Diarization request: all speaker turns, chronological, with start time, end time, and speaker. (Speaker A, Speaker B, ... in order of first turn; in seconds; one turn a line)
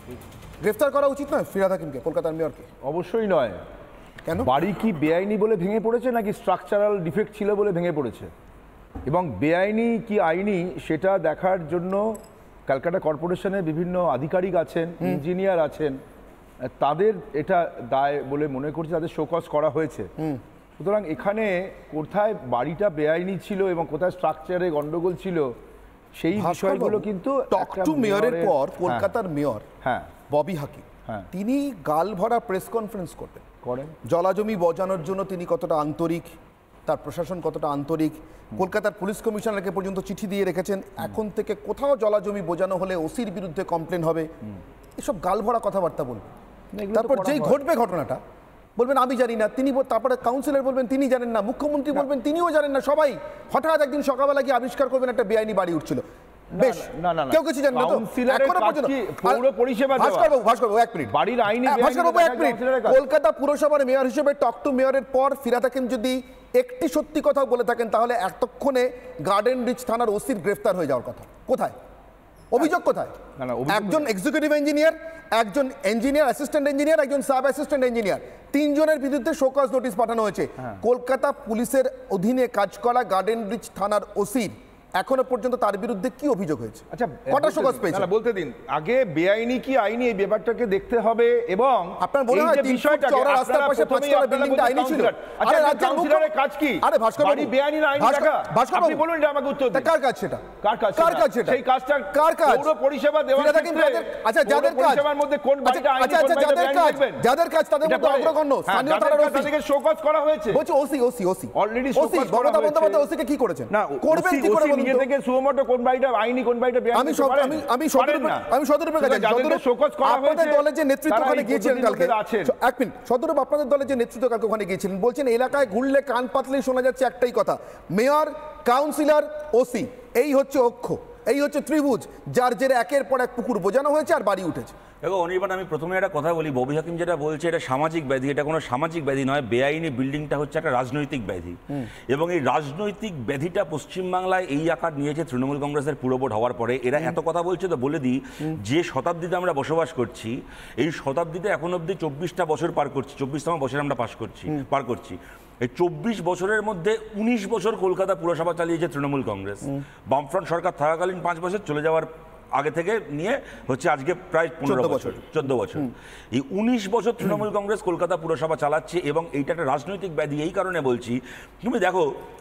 Speaker A: 0.6-2.7
Speaker B: 2.8-3.6
Speaker A: 4.2-4.5
Speaker B: 4.4-8.3
Speaker B: 9.1-16.0
Speaker B: 16.6-20.1
Speaker B: 20.8-25.5
Speaker B: 26.1-29.1
Speaker A: 26.4-29.6
Speaker B: 29.8-30.1
Speaker A: 30.3-33.4
Speaker B: 33.6-33.9
Speaker A: 34.1-36.3
Speaker A: 36.9-44.3
Speaker A: 45.0-46.3
Speaker B: 46.7-47.6
Speaker A: 46.9-48.2
Speaker A: 48.8-56.0
Speaker B: 56.5-60.3
Speaker A: 56.5-61.1
Speaker B: 61.1-63.0
Speaker A: 61.6-71.7
Speaker A: 72.5-73.2
Speaker B: 73.4-74.1
Speaker A: 73.7-88.1
Speaker B: 86.9-99.9
Speaker A: 92.0-96.3
Speaker A: 96.8-99.0
Speaker A: 99.7-100.4
Speaker B: 100.6-107.2
Speaker A: 100.9-101.6
Speaker A: 102.1-102.7
Speaker A: 103.3-105.1
Speaker A: 105.6-109.5
Speaker B: 107.8-110.6
Speaker A: 110.5-115.1
Speaker B: 111.5-113.0
Speaker B: 113.7-118.5
Speaker A: 116.9-134.7
Speaker B: 119.0-122.5
Speaker C: 135.0-141.6
Speaker C: 142.1-172.1
Speaker A: 164.6-165.3